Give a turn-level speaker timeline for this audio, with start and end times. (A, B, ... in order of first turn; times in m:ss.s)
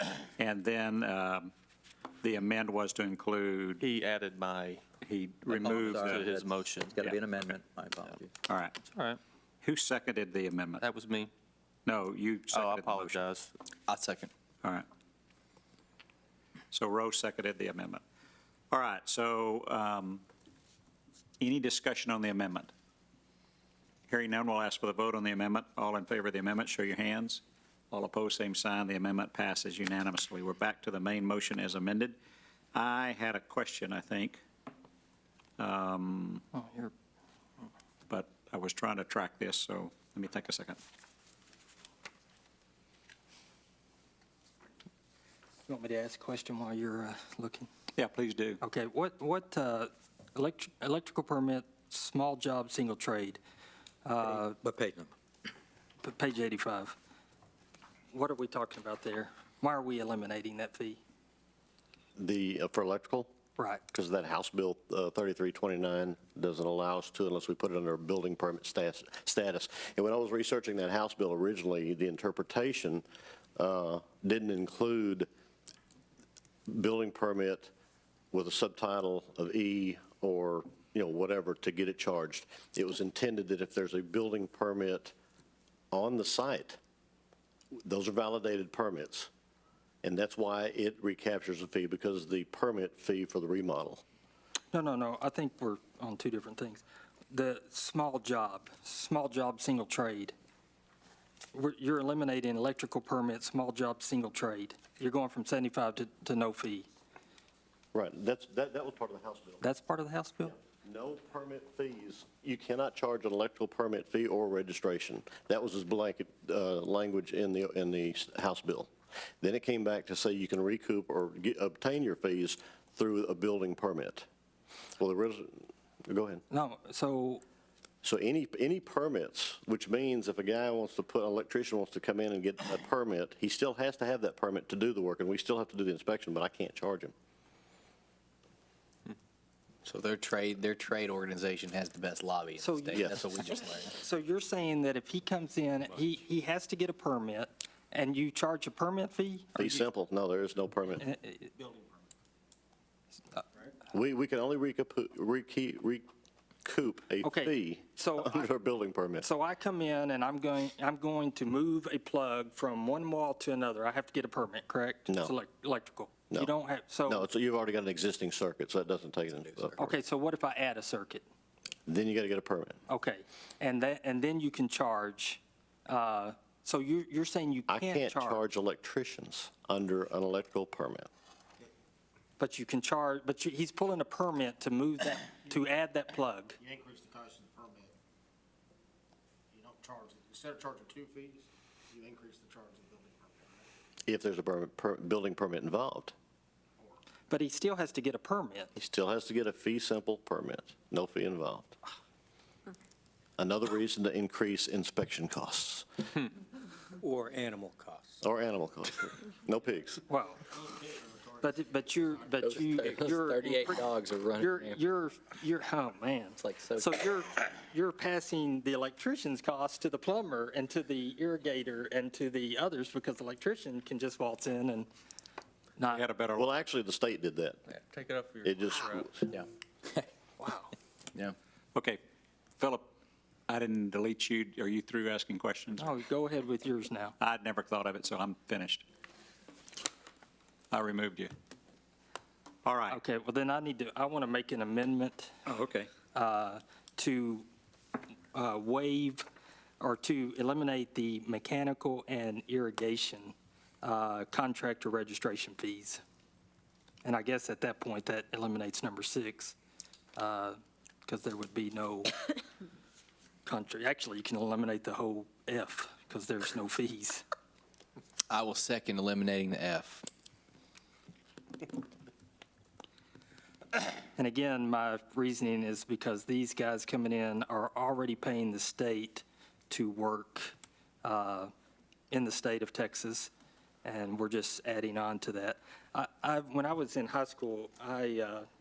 0:00.3-0:01.5 A
0:02.2-0:03.8 A
0:03.8-0:04.8 B
0:05.0-0:06.4 A
0:05.5-0:08.3 C
0:05.5-0:07.2 B
0:08.5-0:08.8 A
0:08.9-0:09.2 B
0:09.6-0:10.8 A
0:10.8-0:11.3 B
0:11.8-0:13.2 A
0:12.5-0:13.5 B
0:13.9-0:14.3 D
0:16.7-0:18.0 A
0:18.7-0:20.2 A
0:21.4-0:22.7 A
0:24.1-0:32.2 A
0:32.7-0:34.4 A
0:35.6-0:36.4 A
0:36.5-0:36.9 E
0:38.1-0:40.8 A
0:45.7-0:47.7 E
0:48.0-0:48.6 A
0:48.6-0:53.4 E
0:54.0-0:54.6 E
0:54.6-0:55.1 C
0:56.0-0:56.9 E
0:58.1-1:01.0 E
1:02.2-1:03.3 F
1:03.6-1:03.8 E
1:03.9-1:13.0 F
1:13.6-1:15.3 F
1:16.7-1:17.7 F
1:18.3-1:25.1 F
1:25.9-1:26.8 F
1:27.7-1:29.3 F
1:30.0-1:34.0 F
1:34.7-1:40.3 E
1:41.5-1:46.9 E
1:47.9-1:49.6 F
1:49.6-1:50.5 E
1:50.5-2:04.3 F
2:05.0-2:06.4 F
2:06.5-2:07.4 E
2:08.0-2:17.1 F
2:19.8-2:23.9 D
2:22.6-2:29.8 E
2:22.9-2:23.3 F
2:29.6-2:31.0 F
2:31.0-2:31.5 E
2:33.9-2:36.0 F
2:36.6-2:39.3 F
2:37.2-2:38.5 E
2:39.2-2:47.3 E
2:45.1-2:45.3 F
2:47.0-2:49.9 F
2:49.8-2:51.2 E
2:51.9-2:52.8 F
2:52.9-2:58.4 E
2:57.7-3:01.1 F
3:02.4-3:06.6 E
3:06.6-3:07.9 G
3:09.5-3:13.6 G
3:14.1-3:16.1 F
3:17.3-3:18.7 E
3:18.8-3:21.8 F
3:23.4-3:25.9 F
3:27.0-3:28.1 B
3:28.2-3:30.0 F
3:30.1-3:30.4 E
3:30.8-3:31.2 G
3:31.4-3:44.9 E
3:32.5-3:34.8 D
3:36.4-3:36.8 D
3:45.8-3:46.0 E
3:45.9-3:46.5 A
3:46.3-3:47.6 F
3:47.7-3:49.0 B
3:48.4-3:49.3 F
3:49.3-3:50.0 D
3:50.4-3:50.7 E
3:52.6-3:52.9 A
3:53.5-3:55.9 A
3:55.8-3:57.1 E
3:57.2-3:58.8 A
4:00.7-4:01.3 A
4:02.6-4:03.0 A
4:02.9-4:05.4 E
4:05.4-4:05.9 A
4:06.1-4:07.5 E
4:08.3-4:09.2 E
4:09.8-4:16.0 E
4:17.0-4:19.6 E
4:20.2-4:22.2 E
4:23.4-4:27.2 E
4:28.3-4:30.0 D
4:34.1-4:41.5 E
4:42.1-4:43.3 E
4:43.8-4:48.5 E